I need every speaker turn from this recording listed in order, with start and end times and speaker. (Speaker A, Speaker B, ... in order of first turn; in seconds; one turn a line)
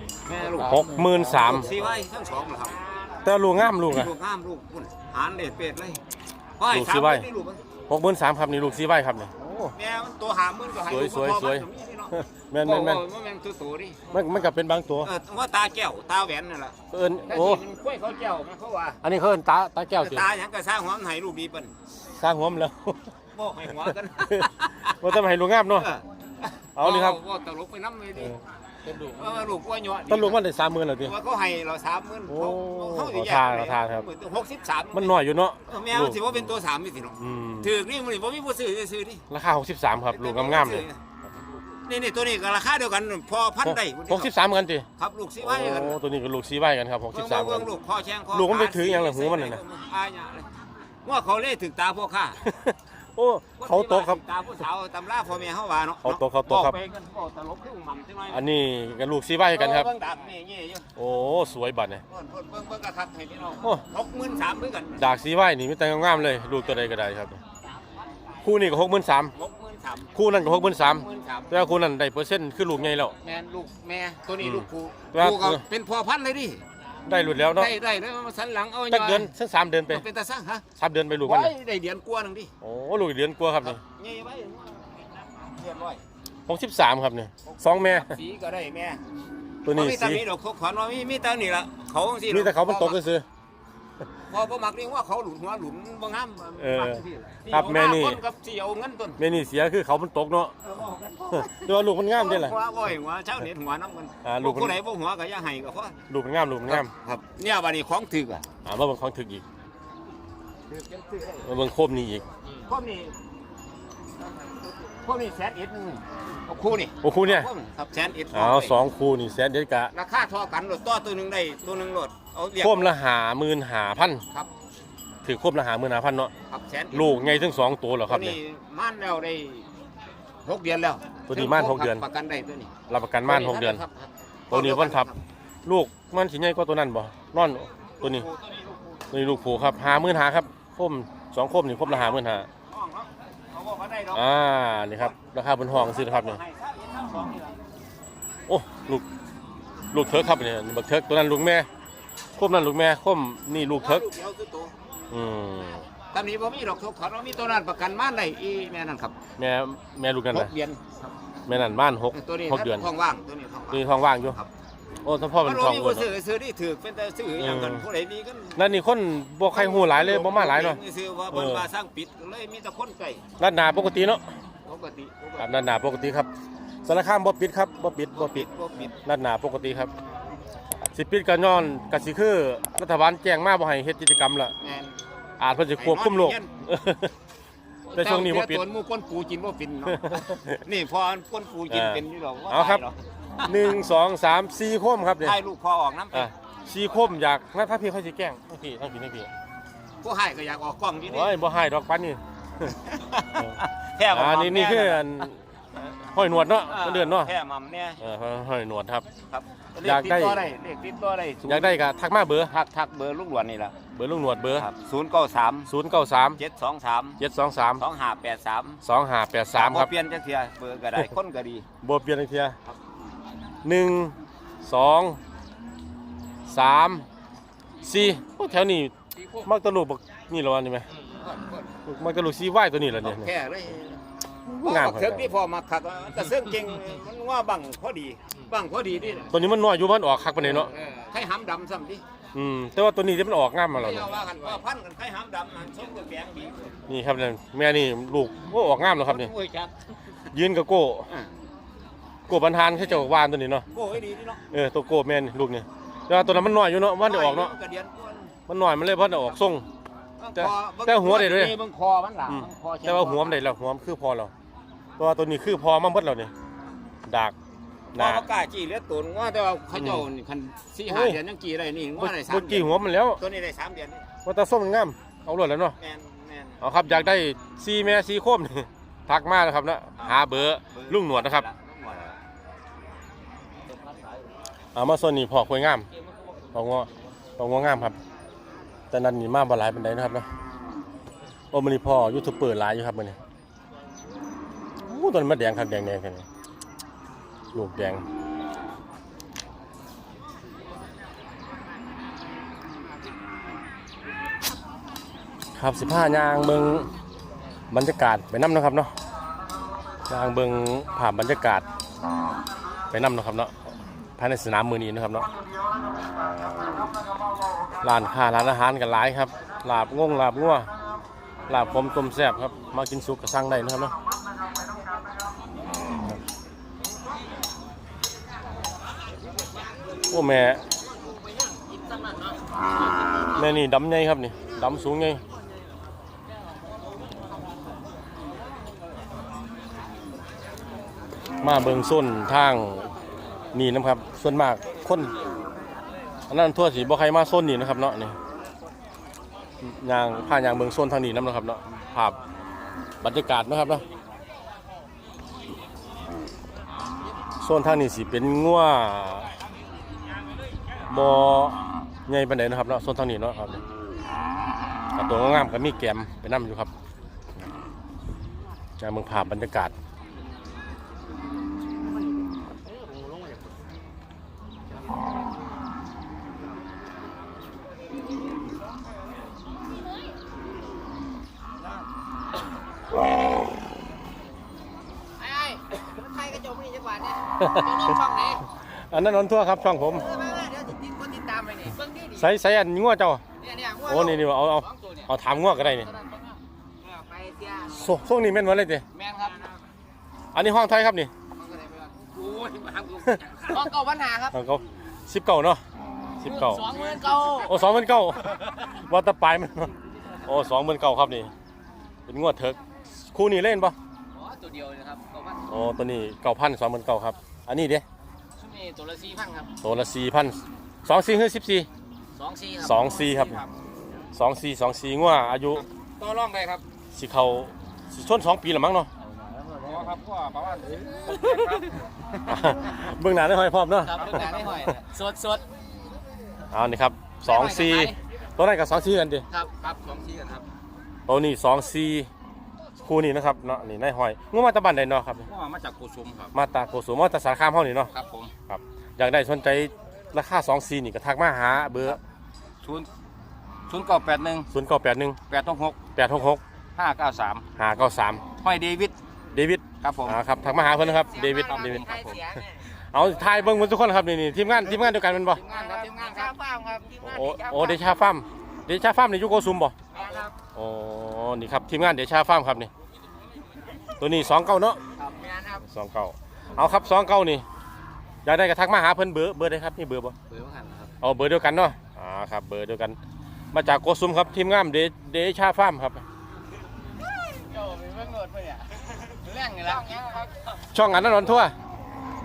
Speaker A: 0.2-3.0
Speaker B: 0.6-1.8
Speaker B: 3.2-4.1
Speaker A: 3.9-6.0
Speaker A: 6.6-7.6
Speaker B: 6.7-7.2
Speaker B: 7.9-9.7
Speaker A: 9.7-14.0
Speaker B: 10.8-13.0
Speaker B: 14.1-15.1
Speaker A: 15.0-19.0
Speaker B: 16.9-17.6
Speaker B: 19.0-20.3
Speaker A: 20.0-21.7
Speaker B: 22.0-23.1
Speaker A: 23.3-25.2
Speaker B: 23.8-25.9
Speaker A: 25.7-28.4
Speaker B: 26.8-27.2
Speaker A: 28.9-30.4
Speaker B: 30.1-31.1
Speaker A: 31.0-39.2
Speaker B: 32.3-34.0
Speaker B: 34.9-36.4
Speaker B: 37.2-37.7
Speaker B: 39.3-40.9
Speaker A: 40.1-41.0
Speaker A: 41.9-44.3
Speaker B: 44.1-44.9
Speaker A: 45.0-46.0
Speaker B: 45.4-47.7
Speaker A: 47.1-50.5
Speaker B: 48.3-49.6
Speaker A: 51.0-52.4
Speaker B: 52.4-54.2
Speaker A: 53.6-58.4
Speaker B: 56.0-56.7
Speaker B: 58.3-59.9
Speaker A: 59.5-60.9
Speaker B: 61.0-62.0
Speaker A: 62.1-65.0
Speaker B: 65.0-67.4
Speaker B: 68.4-69.3
Speaker A: 69.3-70.1
Speaker B: 70.1-73.2
Speaker A: 70.8-71.5
Speaker A: 73.2-76.6
Speaker B: 74.4-75.6
Speaker B: 77.1-77.7
Speaker A: 77.5-79.3
Speaker B: 78.9-80.0
Speaker A: 79.9-80.6
Speaker B: 80.8-81.5
Speaker A: 81.2-82.5
Speaker B: 82.6-83.8
Speaker A: 83.6-86.0
Speaker B: 86.5-88.1
Speaker A: 87.5-89.0
Speaker B: 89.6-90.2
Speaker A: 89.7-93.0
Speaker B: 92.3-93.2
Speaker A: 94.3-99.2
Speaker B: 96.6-98.2
Speaker B: 99.2-100.5
Speaker A: 100.6-106.0
Speaker B: 101.3-102.5
Speaker B: 104.2-104.8
Speaker B: 106.1-106.9
Speaker A: 106.7-108.5
Speaker B: 108.6-109.4
Speaker A: 110.7-111.5
Speaker B: 111.4-112.2
Speaker A: 112.6-113.1
Speaker A: 115.0-118.8
Speaker B: 117.0-117.5
Speaker B: 118.3-119.9
Speaker A: 119.9-122.9
Speaker B: 122.6-124.2
Speaker B: 125.2-126.3
Speaker A: 126.5-127.1
Speaker B: 126.9-128.4
Speaker A: 128.1-129.7
Speaker A: 130.4-132.7
Speaker B: 131.3-132.0
Speaker B: 132.9-133.8
Speaker A: 133.3-135.2
Speaker B: 134.5-135.1
Speaker B: 135.6-138.2
Speaker A: 138.0-139.1
Speaker B: 139.1-142.5
Speaker A: 142.7-144.3
Speaker B: 144.1-146.4
Speaker A: 145.7-147.6
Speaker B: 148.5-149.0
Speaker B: 149.9-151.7
Speaker B: 152.3-154.1
Speaker A: 153.8-154.7
Speaker B: 155.1-155.9
Speaker A: 156.1-159.2
Speaker B: 159.4-160.5
Speaker A: 160.3-161.1
Speaker B: 161.5-162.9
Speaker A: 162.1-164.5
Speaker B: 163.7-164.4
Speaker B: 165.0-166.1
Speaker A: 165.4-168.6
Speaker B: 167.4-167.8
Speaker B: 168.6-170.8
Speaker A: 169.5-173.2
Speaker B: 171.3-171.7
Speaker B: 173.4-174.2
Speaker A: 174.6-175.7
Speaker B: 175.4-176.3
Speaker B: 176.8-178.4
Speaker A: 178.1-179.0
Speaker B: 179.0-179.9
Speaker B: 180.9-184.5
Speaker A: 184.6-185.0
Speaker B: 185.4-187.1
Speaker A: 185.8-186.5
Speaker A: 187.9-193.0
Speaker B: 187.9-188.6
Speaker B: 189.9-190.6
Speaker B: 191.7-192.8
Speaker B: 193.4-195.4
Speaker A: 195.2-196.3
Speaker B: 196.1-199.3
Speaker A: 200.0-201.4
Speaker B: 201.1-202.8
Speaker A: 202.9-205.3
Speaker B: 204.1-207.3
Speaker A: 206.7-208.0
Speaker B: 208.0-209.1
Speaker A: 209.3-211.8
Speaker B: 209.8-210.5
Speaker B: 211.4-212.5
Speaker A: 212.5-213.8
Speaker B: 213.9-214.7
Speaker A: 214.5-215.7
Speaker B: 215.7-216.4
Speaker A: 216.4-217.2
Speaker B: 217.2-217.8
Speaker A: 217.8-218.8
Speaker B: 218.8-219.9
Speaker A: 219.5-221.7
Speaker B: 221.8-222.6
Speaker B: 223.6-225.2
Speaker B: 226.5-227.1
Speaker B: 227.8-228.9
Speaker B: 229.4-230.9
Speaker A: 231.1-231.7
Speaker B: 231.8-233.3
Speaker A: 233.0-234.0
Speaker B: 234.4-235.3
Speaker A: 234.6-239.3
Speaker B: 239.3-240.7
Speaker A: 240.4-242.0
Speaker B: 242.3-244.3
Speaker A: 243.7-246.8
Speaker B: 246.9-249.3
Speaker A: 248.9-249.7
Speaker B: 250.3-251.1
Speaker B: 252.3-253.6
Speaker A: 253.7-254.4
Speaker B: 254.5-257.5
Speaker A: 257.0-258.3
Speaker B: 258.5-259.6
Speaker A: 260.2-263.4
Speaker B: 260.4-261.6
Speaker B: 262.3-264.3
Speaker B: 265.0-266.3
Speaker B: 267.1-267.3
Speaker B: 267.9-268.2
Speaker A: 267.9-274.1
Speaker B: 269.8-270.0
Speaker B: 270.9-271.2
Speaker B: 272.0-273.2
Speaker B: 274.2-275.8
Speaker A: 275.8-276.6
Speaker B: 276.6-281.4
Speaker A: 280.0-282.1
Speaker C: 283.7-284.1
Speaker B: 284.7-285.9
Speaker B: 286.5-288.0
Speaker B: 288.9-290.3
Speaker B: 291.5-293.2
Speaker B: 294.8-296.2
Speaker B: 297.5-298.0
Speaker B: 305.6-306.9
Speaker B: 307.7-308.9
Speaker B: 310.1-311.6
Speaker B: 312.9-315.3
Speaker B: 317.8-320.7
Speaker B: 321.5-323.9
Speaker B: 330.1-330.7
Speaker C: 331.7-332.2
Speaker B: 333.3-335.2
Speaker B: 341.4-342.9
Speaker B: 343.5-345.1
Speaker B: 346.3-348.1
Speaker B: 349.6-352.2
Speaker B: 353.0-353.8
Speaker B: 357.4-359.3
Speaker B: 360.7-363.6
Speaker B: 364.9-366.7
Speaker B: 368.8-369.7
Speaker C: 372.6-373.4
Speaker C: 385.2-388.4
Speaker B: 387.4-388.0
Speaker B: 388.7-390.1
Speaker C: 389.9-392.3
Speaker B: 392.1-393.2
Speaker C: 393.4-397.9
Speaker B: 393.8-395.9
Speaker B: 397.7-398.8
Speaker C: 398.9-399.6
Speaker B: 400.3-401.1
Speaker C: 401.3-404.4
Speaker B: 404.3-405.6
Speaker B: 406.2-406.8
Speaker C: 406.2-407.6
Speaker B: 407.4-409.7
Speaker B: 410.2-411.3
Speaker B: 412.1-413.7
Speaker C: 414.1-415.4
Speaker B: 415.5-417.8
Speaker C: 418.4-419.5
Speaker B: 419.6-421.7
Speaker C: 422.1-423.5
Speaker B: 422.6-423.4
Speaker B: 424.1-425.6
Speaker A: 426.0-426.6
Speaker B: 426.9-428.9
Speaker C: 429.2-431.8
Speaker A: 429.6-431.6
Speaker B: 432.3-434.6
Speaker C: 433.8-435.4
Speaker A: 434.1-434.8
Speaker B: 436.5-439.2
Speaker C: 437.2-437.9
Speaker C: 439.3-440.4
Speaker B: 441.1-442.1
Speaker B: 442.8-445.3
Speaker A: 445.3-446.3
Speaker B: 446.3-447.9
Speaker A: 448.0-448.3
Speaker B: 448.5-452.0
Speaker C: 453.7-454.3
Speaker A: 453.7-454.5
Speaker B: 454.5-455.2
Speaker A: 455.3-455.7
Speaker C: 455.3-455.6
Speaker B: 455.9-456.4
Speaker A: 456.8-457.4
Speaker B: 457.5-458.2
Speaker A: 458.4-458.9
Speaker B: 459.3-462.3
Speaker A: 459.8-460.1
Speaker C: 460.7-462.6
Speaker B: 462.9-465.4
Speaker C: 465.3-467.9
Speaker A: 465.4-466.3
Speaker B: 467.0-469.7
Speaker C: 469.9-470.3
Speaker A: 470.0-470.2
Speaker B: 470.5-472.7
Speaker B: 474.0-474.8
Speaker C: 475.0-475.6
Speaker B: 475.6-477.4
Speaker B: 478.2-480.1
Speaker C: 480.3-480.9
Speaker B: 481.0-483.0
Speaker B: 483.5-486.0
Speaker C: 487.2-490.6
Speaker A: 489.2-489.8
Speaker B: 490.6-491.5